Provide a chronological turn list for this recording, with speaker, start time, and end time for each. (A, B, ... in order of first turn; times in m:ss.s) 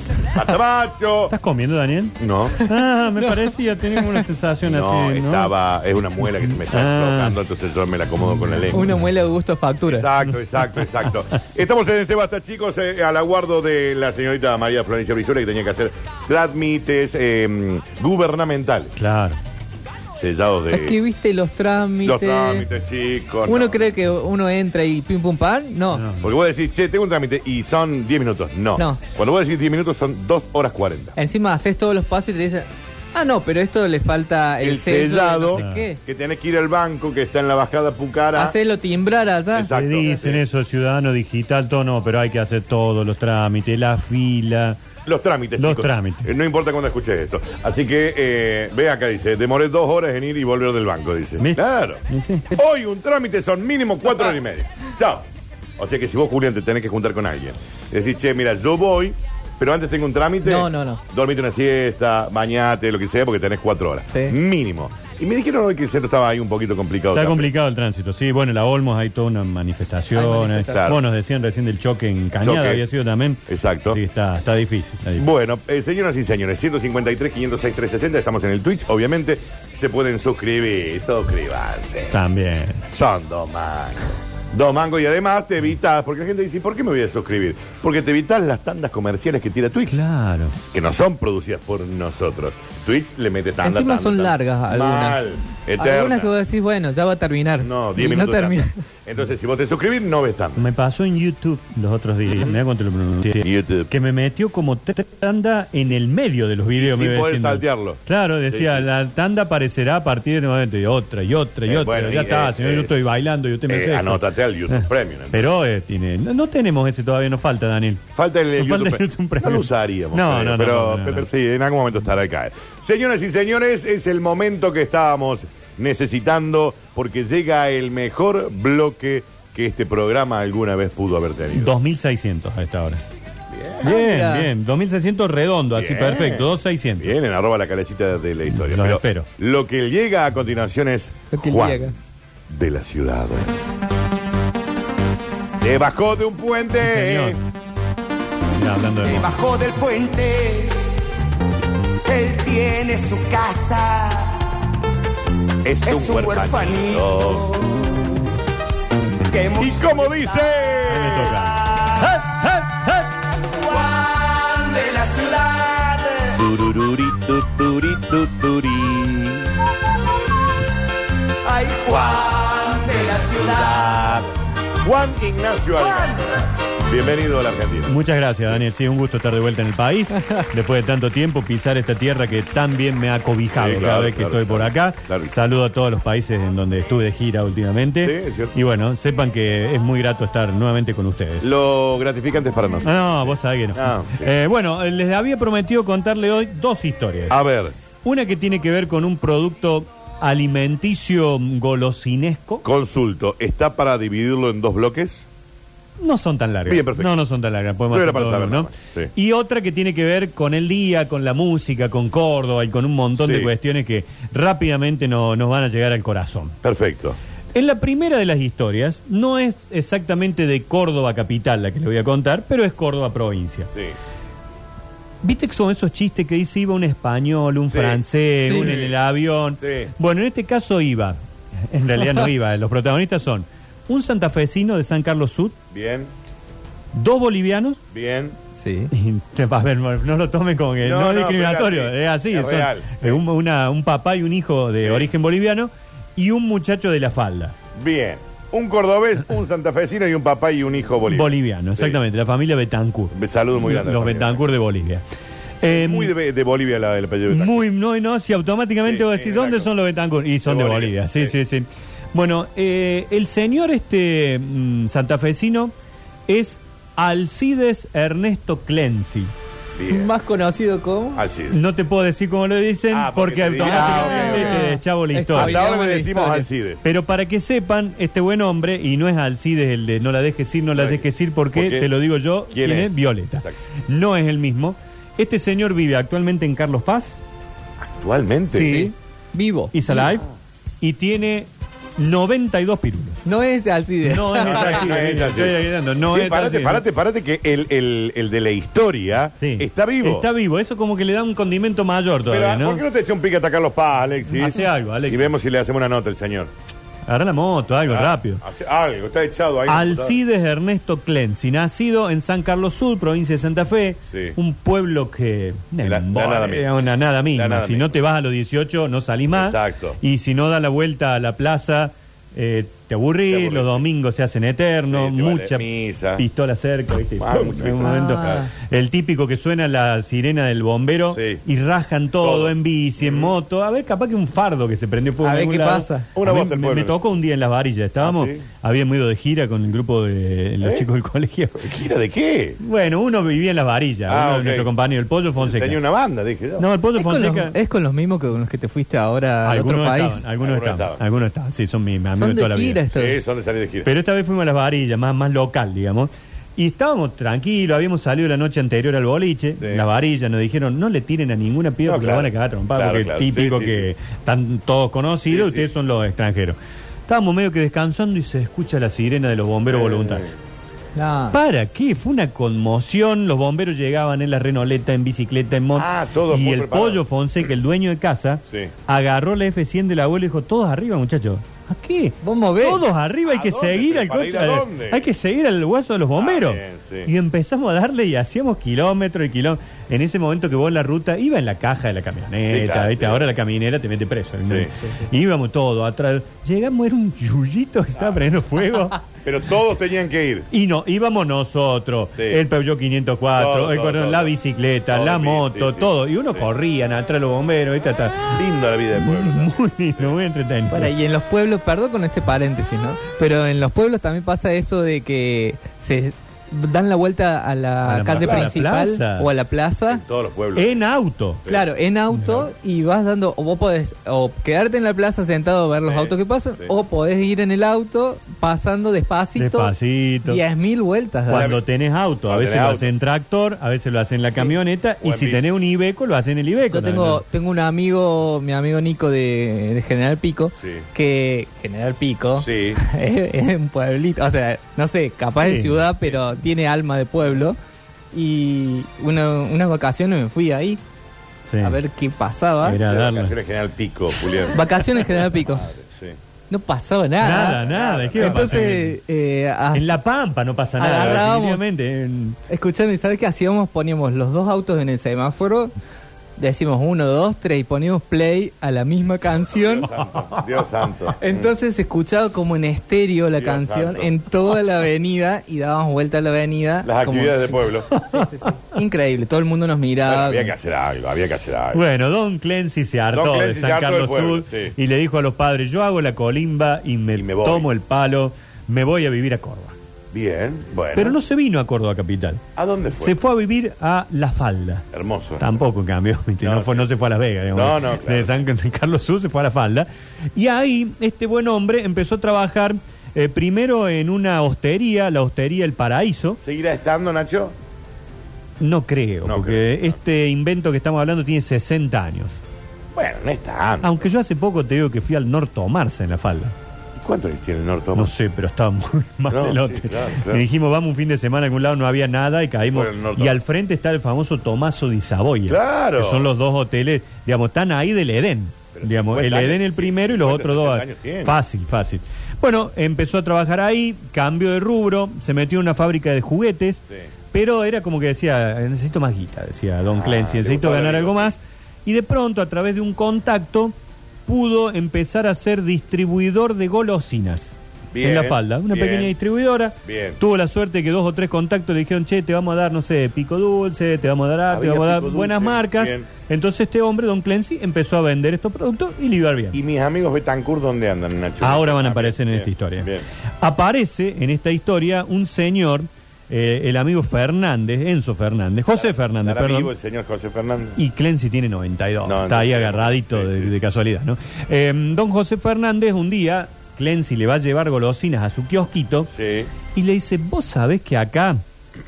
0:00.3-0:01.3 A
0:01.3-0:05.5 B
0:02.2-0:02.6 A
0:04.7-0:08.9 A
0:06.2-0:07.4 B
0:08.3-0:08.9 B
0:08.7-0:10.1 C
0:09.9-0:18.9 A
0:19.0-0:19.4 B
0:20.2-0:21.0 A
0:20.7-0:22.7 C
0:22.0-0:23.9 A
0:23.5-0:26.0 C
0:25.9-0:26.3 B
0:26.2-0:31.2 A
0:31.2-0:36.0 C
0:34.6-0:38.6 A
0:35.6-0:35.9 B
0:38.4-0:39.7 C
0:39.5-0:40.4 A
0:39.7-0:44.8 B
0:45.1-0:52.0 A
0:45.6-0:46.3 B
0:51.4-0:52.5 B
0:52.5-0:55.2 A
0:55.8-1:07.5 A
1:00.4-1:01.0 C
1:04.1-1:04.4 C
1:07.1-1:15.3 B
1:10.1-1:10.8 C
1:10.7-1:11.0 A
1:12.4-1:12.8 A
1:13.5-1:14.0 A
1:15.2-1:22.2 A
1:22.1-1:22.9 B
1:22.9-1:30.0 A
1:29.9-1:30.6 B
1:30.7-1:36.3 A
1:33.6-1:35.2 C
1:35.8-1:38.7 C
1:37.6-1:40.7 A
1:40.6-1:58.1 B
1:43.4-1:43.9 A
1:46.8-1:48.0 A
1:48.5-1:48.9 A
1:51.7-1:52.9 A
1:53.7-1:55.6 A
1:58.2-2:11.7 A
1:58.6-2:01.3 B
2:11.5-2:13.0 B
2:13.5-2:13.8 A
2:13.8-2:14.5 C
2:13.8-2:17.2 B
2:15.8-2:16.5 A
2:17.0-2:21.9 A
2:18.5-2:19.3 B
2:21.3-2:21.9 C
2:22.5-2:23.6 A
2:25.6-2:27.4 A
2:26.8-2:27.4 B
2:28.5-2:29.3 B
2:29.0-2:30.8 D
2:32.0-2:34.3 D
2:35.6-2:37.5 A
2:35.8-2:38.0 D
2:39.3-2:40.6 D
2:39.6-2:41.3 A
2:40.9-2:43.0 B
2:41.6-2:42.2 D
2:43.4-2:46.4 D
2:46.3-2:49.4 A
2:47.9-2:48.6 D
2:51.4-2:54.3 D
2:54.8-2:58.0 A
2:55.8-2:56.3 D
2:57.9-3:11.5 B
3:03.6-3:05.3 A
3:08.0-3:08.5 A
3:11.4-3:14.3 A
3:12.8-3:17.4 B
3:17.3-3:17.7 A
3:18.0-3:22.6 B
3:22.6-3:25.2 A
3:26.0-3:36.5 B
3:26.7-3:27.1 A
3:27.9-3:29.1 A
3:33.2-3:33.5 A
3:36.6-3:37.2 A
3:37.5-3:43.7 B
3:45.2-3:51.2 B
3:47.7-3:48.9 A
3:48.4-3:48.7 C
3:49.6-3:49.9 A
3:51.7-3:55.6 B
3:55.7-3:56.1 A
3:56.9-3:57.8 B
3:57.9-3:58.4 A
3:58.6-3:58.9 C
3:58.9-4:07.5 B
4:00.8-4:03.2 A
4:04.8-4:05.1 A
4:07.8-4:12.0 A
4:11.1-4:15.0 B
4:13.1-4:14.4 A
4:15.6-4:16.1 B
4:15.6-4:17.6 A
4:17.3-4:25.7 B
4:18.8-4:19.7 A
4:20.5-4:21.3 A
4:26.3-4:29.3 B
4:29.8-4:30.1 A
4:29.9-4:31.2 C
4:31.2-4:31.6 A
4:31.5-4:35.6 B
4:32.9-4:34.6 A
4:33.6-4:36.5 C
4:35.4-4:36.8 A
4:36.8-4:47.2 B
4:40.8-4:41.0 A
4:41.5-4:41.9 A
4:42.5-4:43.5 A
4:47.8-4:48.7 A
4:48.5-4:48.9 B
4:48.5-4:50.2 C
4:49.7-4:50.2 B
4:50.8-4:53.2 B
4:53.2-4:54.7 C
4:54.0-4:56.8 B
4:54.4-5:00.3 A
4:59.4-5:02.8 B
5:02.3-5:06.5 A
5:04.3-5:05.3 B
5:07.1-5:08.4 B
5:07.9-5:10.2 A
5:09.7-5:25.6 B
5:15.8-5:16.7 A
5:17.4-5:18.0 A
5:19.3-5:20.0 A
5:23.3-5:23.8 A
5:24.9-5:26.2 A
5:26.2-5:41.7 B
5:27.2-5:28.4 A
5:27.8-5:28.5 C
5:31.1-5:31.4 A
5:32.2-5:33.3 A
5:35.2-5:36.1 C
5:36.2-5:37.0 A
5:38.0-5:38.4 A
5:41.6-5:42.6 A
5:42.6-5:45.8 B
5:44.1-5:44.7 A
5:45.4-5:46.6 A
5:46.6-5:47.6 B
5:47.0-5:50.2 C
5:49.4-5:52.8 B
5:50.4-5:51.0 A
5:52.1-5:53.2 C
5:52.9-5:53.9 A
5:53.8-6:06.6 B
6:01.9-6:03.8 A
6:05.3-6:05.7 A
6:07.1-6:10.2 B
6:09.7-6:10.3 A
6:11.0-6:11.4 C
6:11.3-6:39.0 B
6:15.8-6:17.0 A
6:22.2-6:22.8 C
6:23.3-6:25.0 A
6:26.2-6:27.1 A
6:32.5-6:33.2 A
6:39.2-6:40.5 A
6:40.5-6:48.4 B
6:43.4-6:44.3 A
6:44.9-6:46.4 A
6:48.4-6:50.1 A
6:49.0-6:50.9 B
6:50.7-7:00.0 C
6:57.8-6:59.3 B
6:58.2-6:58.5 A
6:59.9-7:00.8 A
7:00.6-7:01.4 B
7:01.5-7:09.7 C
7:02.1-7:02.4 B
7:05.9-7:06.7 A
7:09.4-7:10.4 B
7:10.3-7:11.6 C
7:11.3-7:17.2 B
7:11.3-7:11.6 A
7:12.3-7:12.9 A
7:15.0-7:15.5 A
7:16.7-7:27.6 C
7:22.4-7:22.8 A
7:25.4-7:25.8 B
7:28.1-7:30.8 C
7:31.5-7:31.8 B
7:31.6-7:32.8 C
7:32.6-7:33.3 B
7:32.7-7:36.2 A
7:34.5-7:35.7 C
7:36.5-7:37.6 C
7:37.2-7:39.0 B
7:37.3-7:38.6 A
7:38.2-7:40.0 C
7:39.7-7:42.4 B
7:40.8-7:41.6 C
7:40.9-7:41.2 A
7:42.5-7:45.7 C
7:46.4-7:49.9 C
7:49.5-7:51.5 A
7:51.2-8:00.5 C
7:53.4-7:54.1 A
7:56.8-7:57.9 A
8:00.1-8:01.8 A
8:01.7-8:09.7 B
8:03.1-8:04.7 A
8:07.2-8:07.7 A
8:10.1-8:11.2 A
8:11.0-8:12.4 B
8:12.6-8:13.2 A
8:13.0-8:14.9 B
8:14.9-8:15.6 A
8:15.4-8:26.4 B
8:16.4-8:16.8 A
8:17.5-8:18.4 A
8:26.4-8:27.5 A
8:28.6-8:32.4 B
8:29.3-8:29.9 A
8:33.0-8:34.1 A
8:33.8-8:36.5 B
8:37.0-8:38.1 A
8:38.0-9:03.7 B
8:39.3-8:40.4 A
8:42.7-8:43.4 A
8:45.5-8:46.3 A
8:48.7-8:51.4 A
8:59.9-9:01.3 A
9:04.3-9:19.6 B
9:07.9-9:09.1 A
9:09.9-9:10.2 A
9:14.5-9:16.1 A
9:19.5-9:23.0 A
9:21.4-9:22.9 B
9:23.4-9:29.7 B
9:28.7-9:30.8 A
9:30.8-9:39.1 B
9:32.0-9:33.6 A
9:39.1-9:39.5 A
9:39.7-9:41.4 B